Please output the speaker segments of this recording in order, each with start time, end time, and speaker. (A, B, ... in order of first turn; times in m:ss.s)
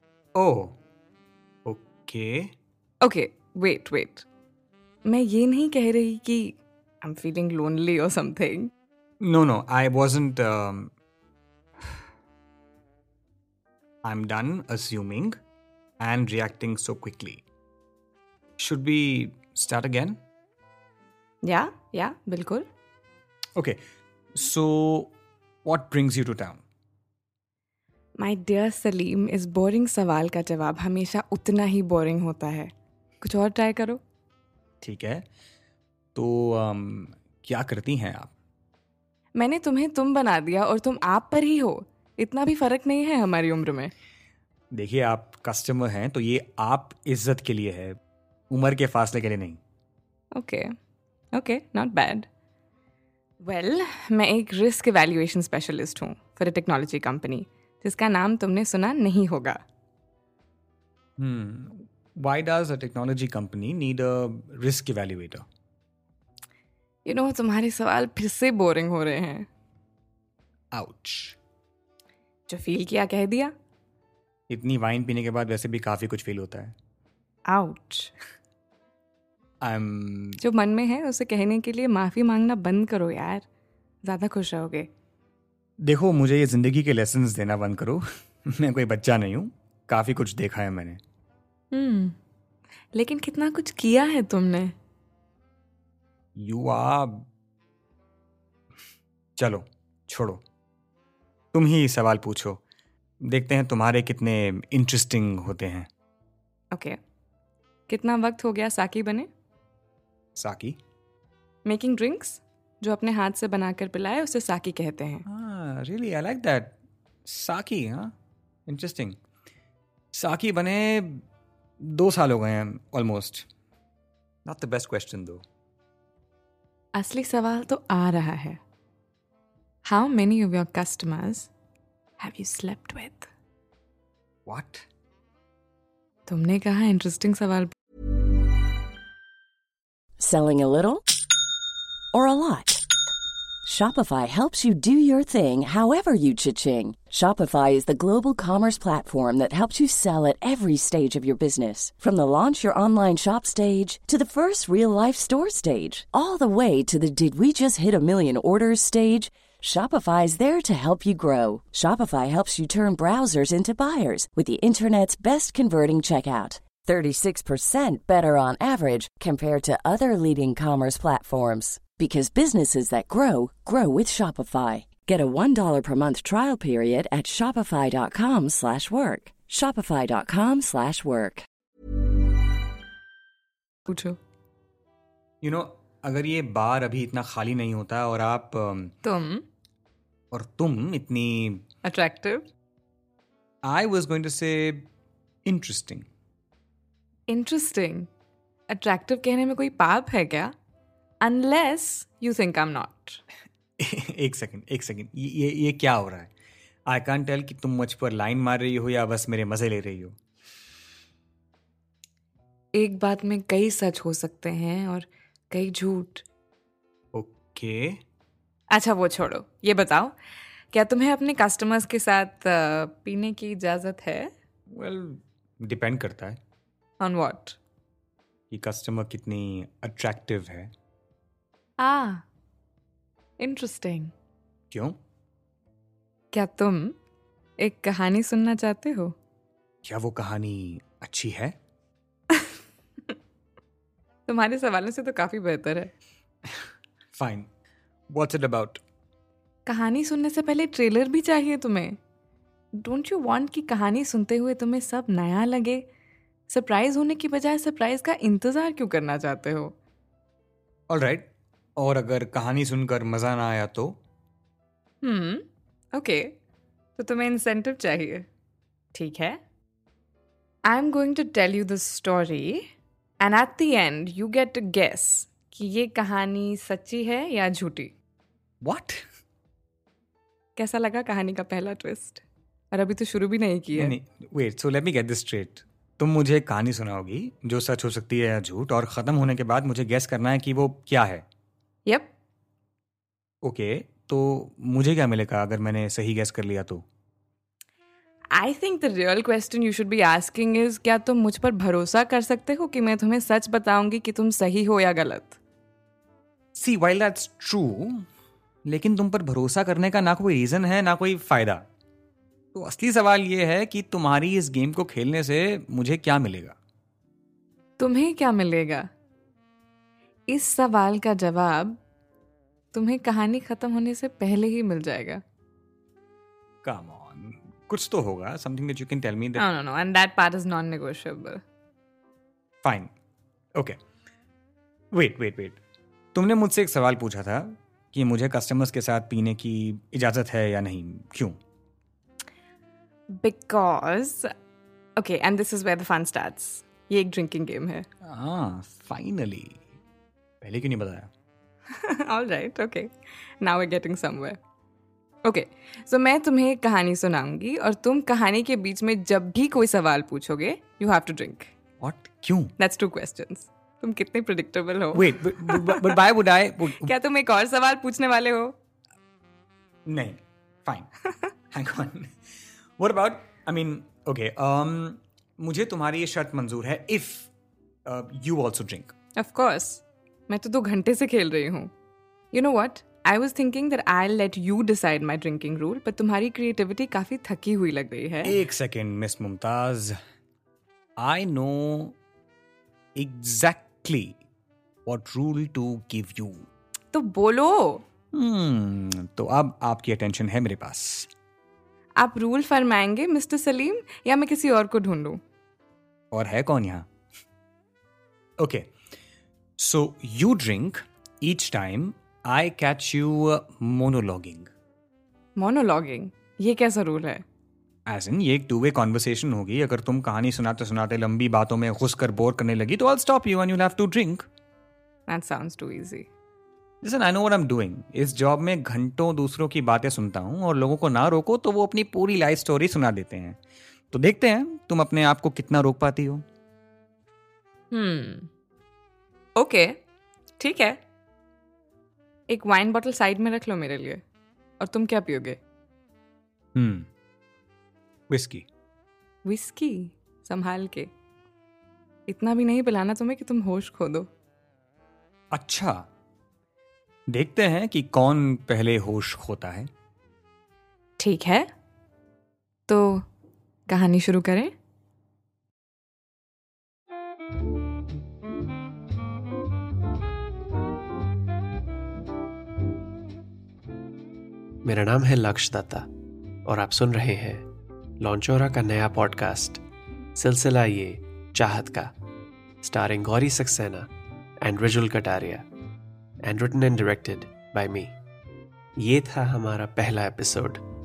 0:00.4-0:00.8 A
0:01.6-0:02.5 A
0:03.0-0:04.2 B
0:05.0-0:08.7 B
0:09.2-0:10.9 A
0:14.0-0:15.3 A
0:16.0-0:17.4 A
0:18.6-0:20.2 A
0:21.4-0:22.6 B
0:24.3-0:25.1 A
0:25.6-0:26.6 A
0:28.2-0:34.0 B
0:34.8-0:35.2 A
0:36.1-0:38.3 A
0:39.3-0:43.9 B
0:44.7-0:48.0 A
0:48.5-0:49.6 A
0:50.3-0:50.7 B
0:51.3-0:52.2 B
0:53.4-0:59.6 B
1:01.2-1:05.4 A
1:07.0-1:09.5 B
1:10.7-1:11.4 A
1:12.5-1:13.5 B
1:14.5-1:16.7 A
1:17.5-1:18.1 B
1:19.6-1:20.4 A
1:20.4-1:23.4 B
1:24.0-1:24.9 B
1:25.8-1:31.0 A
1:31.7-1:32.1 B
1:32.9-1:34.7 B
1:36.4-1:37.3 A
1:39.4-1:40.4 A
1:41.5-1:42.6 A
1:43.2-1:45.9 A
1:46.7-1:47.0 B
1:47.9-1:49.3 B
1:50.4-1:50.8 A
1:51.6-1:55.2 B
1:55.3-1:56.7 A
1:57.2-1:58.1 A
1:58.7-1:59.2 A
2:00.1-2:01.2 A
2:01.8-2:03.5 A
2:04.4-2:05.4 A
2:06.9-2:08.6 B
2:09.8-2:11.5 B
2:12.2-2:13.3 B
2:14.4-2:14.8 A
2:16.3-2:17.7 B
2:20.2-2:21.0 C
2:22.1-2:22.8 C
2:23.6-3:01.4 C
3:03.9-3:04.2 B
3:05.4-3:08.9 A
3:09.0-3:09.4 B
3:10.3-3:11.6 A
3:11.8-3:12.4 B
3:13.6-3:14.9 A
3:15.4-3:16.1 A
3:17.3-3:18.1 B
3:18.7-3:20.5 B
3:21.2-3:23.2 B
3:23.8-3:26.3 A
3:26.8-3:30.1 A
3:32.7-3:36.2 B
3:37.1-3:38.0 A
3:38.7-3:40.2 B
3:40.7-3:44.3 B
3:44.7-3:46.4 A
3:47.0-3:47.6 B
3:48.5-3:50.7 A
3:51.8-3:52.2 B
3:53.4-3:54.1 B
3:54.7-3:55.0 A
3:56.3-3:57.0 B
3:57.6-3:59.1 B
3:59.8-4:01.5 A
4:04.3-4:05.9 B
4:06.5-4:07.5 A
4:08.1-4:08.8 A
4:09.6-4:12.0 B
4:12.8-4:15.8 B
4:16.5-4:19.7 B
4:20.9-4:24.0 A
4:25.0-4:26.4 B
4:27.0-4:28.3 B
4:28.9-4:29.4 B
4:30.6-4:32.7 B
4:33.2-4:37.9 B
4:38.6-4:39.0 A
4:40.6-4:43.9 B
4:43.7-4:51.2 A
4:51.8-4:52.1 B
4:53.4-4:56.8 A
4:58.3-5:05.4 B
5:06.5-5:08.0 A
5:08.6-5:11.6 A
5:12.5-5:16.5 A
5:17.8-5:18.9 B
5:20.3-5:21.8 B
5:22.7-5:25.2 B
5:26.6-5:29.4 A
5:29.4-5:31.4 B
5:32.6-5:32.9 A
5:34.9-5:35.6 A
5:36.1-5:41.4 A
5:43.2-5:44.3 B
5:45.0-5:47.9 B
5:48.0-5:49.6 A
5:50.4-5:51.1 A
5:51.7-5:54.4 B
5:55.2-6:01.5 B
6:01.8-6:02.5 A
6:02.6-6:06.0 B
6:04.9-6:06.9 A
6:06.7-6:08.5 B
6:09.8-6:10.9 A
6:11.5-6:12.1 A
6:12.8-6:17.3 A
6:17.8-6:18.9 A
6:19.2-6:21.7 B
6:22.3-6:28.4 B
6:28.2-6:29.9 A
6:31.0-6:32.0 A
6:33.0-6:34.2 A
6:34.8-6:36.5 A
6:36.9-6:37.8 B
6:38.1-6:41.1 A
6:42.0-6:45.2 B
6:46.1-6:46.9 A
6:48.4-6:48.7 A
6:49.6-6:54.5 A
6:55.4-6:57.2 B
6:57.8-7:04.2 A
7:05.1-7:06.1 B
7:06.8-7:13.4 A
7:13.9-7:16.2 A
7:17.7-7:18.3 B
7:19.4-7:19.8 B
7:20.4-7:20.8 B
7:22.3-7:24.0 B
7:24.6-7:25.4 B
7:26.5-7:26.9 A
7:28.1-7:28.4 A
7:29.2-7:30.9 B
7:32.1-7:34.1 B
7:35.3-7:35.8 A
7:37.1-7:39.7 A
7:41.0-7:41.5 B
7:42.7-7:43.0 B
7:43.7-7:44.5 B
7:54.6-7:55.9 D
7:56.4-7:57.4 D
7:58.0-7:59.6 D
8:00.2-8:01.9 D
8:02.6-8:03.9 D
8:04.4-8:05.4 D
8:06.2-8:08.0 D
8:08.8-8:10.6 D